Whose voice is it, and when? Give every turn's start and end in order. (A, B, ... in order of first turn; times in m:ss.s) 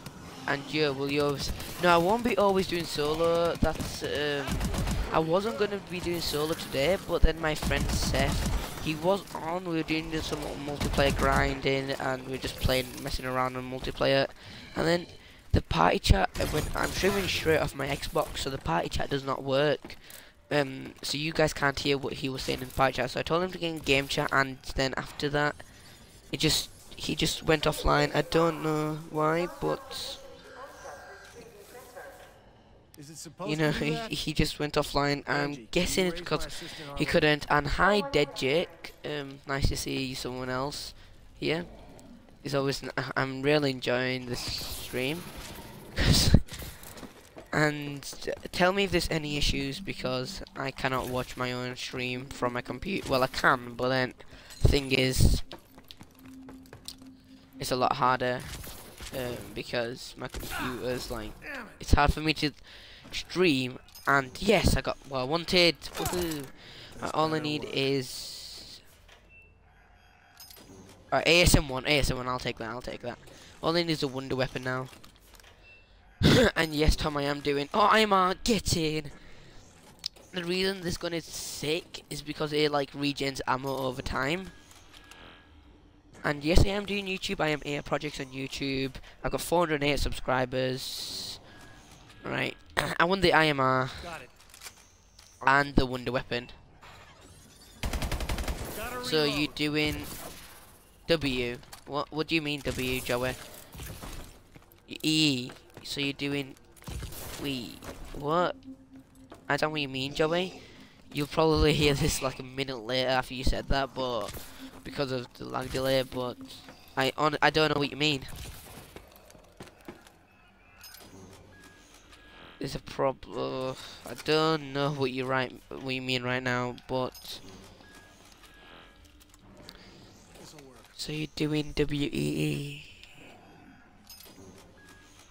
0:00.5-0:25.7 A
0:04.6-0:05.5 B
0:26.3-0:30.2 A
0:33.0-0:34.2 B
0:33.4-0:41.7 A
0:35.3-0:37.3 B
0:42.4-0:46.5 A
0:47.5-0:55.4 A
0:57.6-1:08.8 A
1:01.4-1:01.8 B
1:06.9-1:07.9 B
1:11.1-1:15.0 A
1:16.2-1:19.2 A
1:20.3-1:24.5 A
1:26.2-1:31.4 A
1:32.2-1:34.1 A
1:34.0-1:34.3 B
1:35.4-1:36.6 A
1:38.7-1:39.6 B
1:39.0-1:40.1 A
1:41.1-1:43.4 A
1:44.9-1:46.6 A
1:47.4-1:48.6 A
1:49.5-1:58.3 A
2:02.6-2:07.4 A
2:10.4-2:11.0 B
2:11.0-2:13.1 A